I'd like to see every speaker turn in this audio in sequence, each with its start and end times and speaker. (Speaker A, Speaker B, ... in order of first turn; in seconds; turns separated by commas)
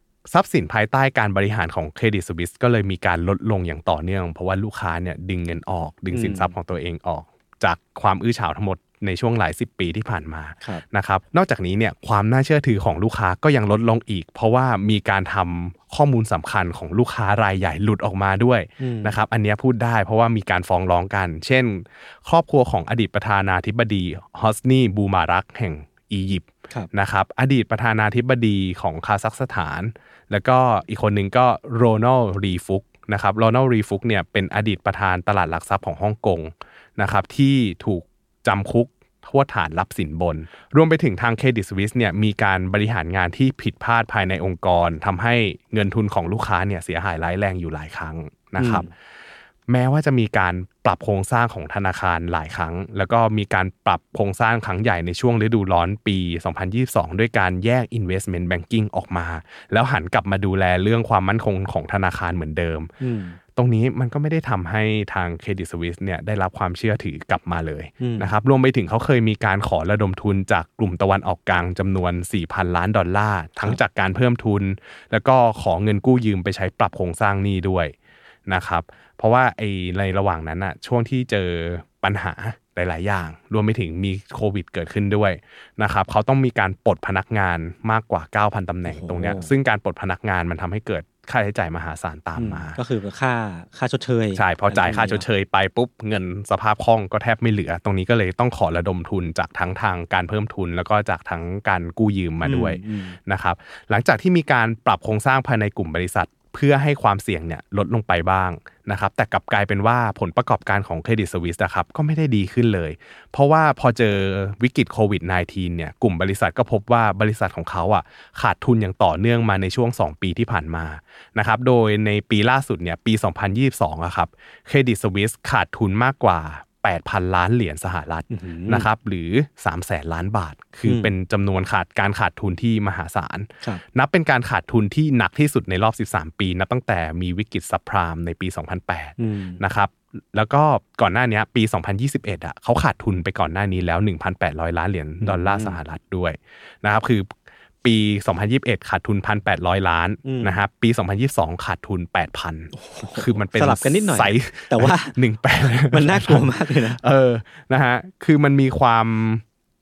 Speaker A: 0.3-48.9, Speaker B: 6.1-6.5, Speaker B: 18.8-19.1, Speaker B: 48.6-48.9, Speaker A: 49.7-62.9, Speaker B: 63.0-63.4, Speaker A: 63.5-77.9, Speaker B: 68.0-68.3, Speaker A: 78.5-92.8, Speaker B: 88.8-89.5, Speaker B: 92.3-95.2, Speaker A: 94.3-147.3, Speaker B: 102.4-103.2, Speaker B: 128.3-128.9, Speaker B: 130.8-131.1, Speaker B: 139.2-139.6, Speaker B: 145.2-145.8, Speaker A: 147.8-159.4, Speaker B: 150.2-150.6, Speaker B: 152.7-155.1, Speaker B: 155.7-157.0